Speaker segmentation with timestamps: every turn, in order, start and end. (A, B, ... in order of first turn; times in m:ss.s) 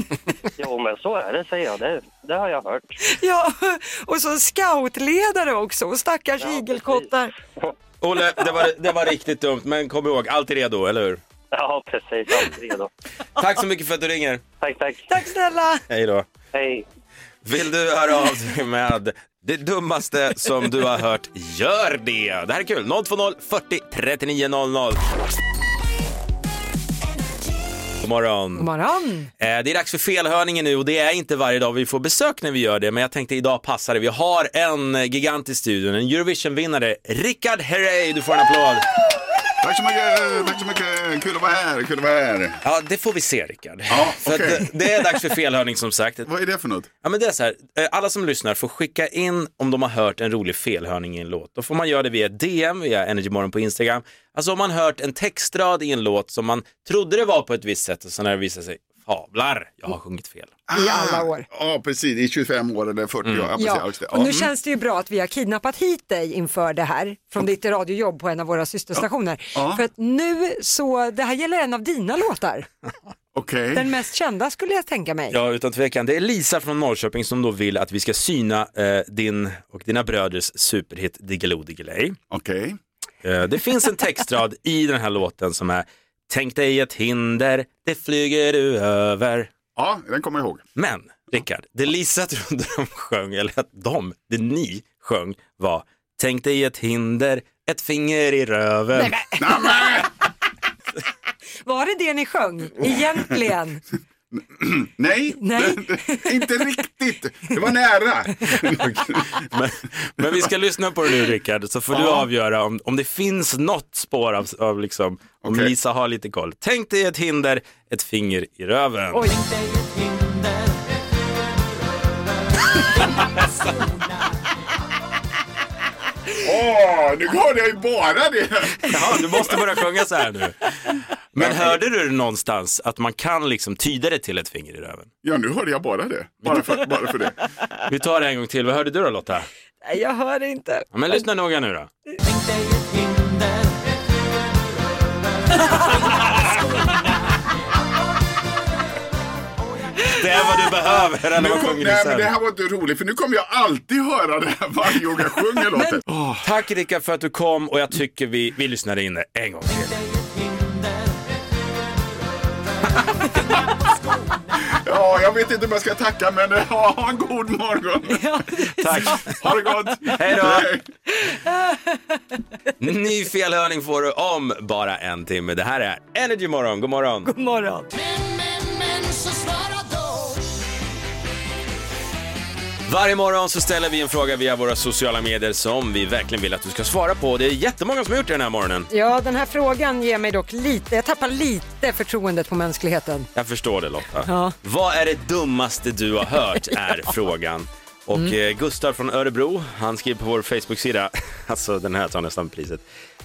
0:00.5-0:03.0 A
0:03.0-0:07.3 B
0:06.4-0:07.0 A
0:08.0-0:11.2 C
0:11.5-0:12.9 A
0:13.4-0:14.4 C
0:14.6-0:15.0 A
0:15.1-0:15.8 B
0:15.9-0:16.2 C
0:16.5-0:16.8 A
0:17.4-0:25.0 C
0:28.0-0:28.7 C
0:28.6-0:29.3 B
0:29.4-0:38.8 C
0:39.6-0:42.6 D
0:42.6-0:46.2 C
0:43.9-0:44.7 D
0:46.2-0:46.9 D
0:47.0-1:00.5 C
1:00.7-1:04.5 D
1:00.7-1:01.4 B
1:03.6-1:12.7 B
1:09.6-1:09.8 D
1:13.3-1:13.9 D
1:13.7-1:15.4 B
1:15.3-1:22.2 C
1:22.3-1:22.8 D
1:23.2-1:29.5 C
1:29.7-1:30.6 D
1:30.8-1:39.2 C
1:39.0-1:39.7 B
1:39.3-1:40.1 D
1:41.6-1:43.8 B
1:44.3-1:49.3 D
1:45.4-1:46.5 B
1:48.8-1:59.3 C
1:55.4-1:55.7 D
2:06.4-2:09.4 D
2:08.8-2:10.6 C
2:11.3-2:15.1 C
2:11.4-2:11.8 D
2:15.2-2:17.4 D
2:17.9-2:19.5 C
2:19.8-2:20.9 B
2:20.9-2:21.9 C
2:30.1-2:32.3 C
2:31.3-2:36.4 D
2:36.4-2:40.0 C
2:44.7-2:48.3 D
2:48.1-2:49.2 B
2:48.8-2:49.3 C
2:48.9-2:50.8 D
2:50.1-2:50.7 C
2:51.3-2:52.0 B
2:52.8-2:57.3 C
2:57.2-2:57.9 B
3:02.8-3:08.9 C
3:08.9-3:13.3 B
3:13.3-3:22.8 C
3:14.3-3:14.5 B